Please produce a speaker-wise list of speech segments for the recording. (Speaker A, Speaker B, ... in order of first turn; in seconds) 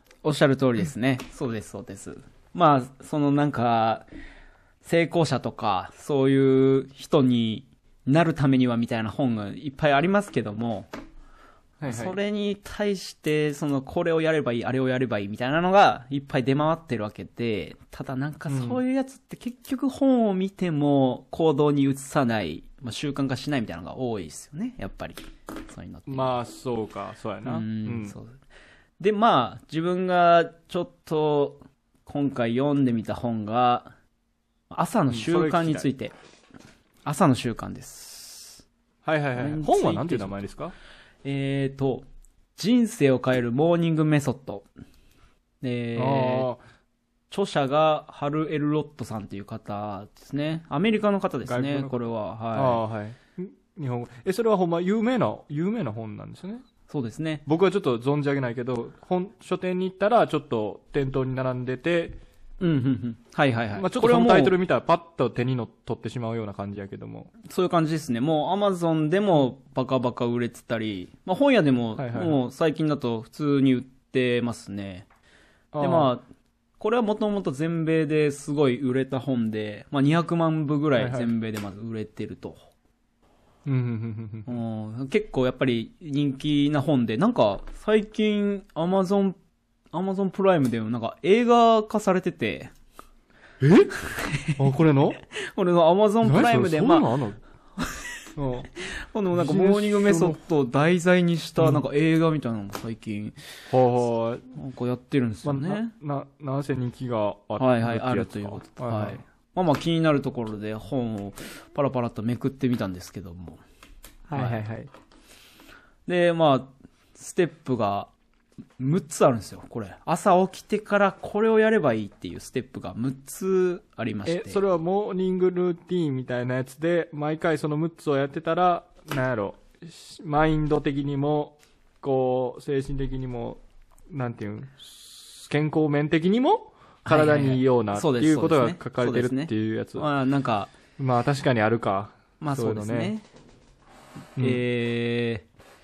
Speaker A: 0.2-4.1, 4.8-10.9, 11.8-26.3, 27.4-28.4, 29.0-33.9, 34.7-36.1, 37.0-38.6, 39.4-40.4, 41.2-44.7, 45.6-46.5, 47.3-52.8, 56.9-57.4, 62.6-64.5, 67.5-75.0, 75.8-76.2, 76.8-82.7, 84.5-89.4, 89.9-92.7, 94.0-94.6, 95.3-97.1, 98.8-103.4, 104.5-105.9, 107.6-113.6, 114.3-114.6, 116.1-118.1, 118.8-124.6, 137.0-140.7, 142.4-143.2, 144.4-145.5
Speaker B: 11.8-12.2, 18.5-18.8, 26.1-28.1, 35.1-35.9, 39.0-40.7, 46.0-46.6, 51.5-51.9, 52.5-56.6, 57.5-62.2, 63.7-67.3, 72.0-72.4, 75.7-76.1, 81.0-81.3, 83.7-84.6, 93.6-93.9, 94.5-95.2, 96.2-97.4, 98.3-98.7, 99.3-100.4, 103.7-104.5, 105.4-109.2, 114.3-114.9, 124.3-140.1, 141.0-143.1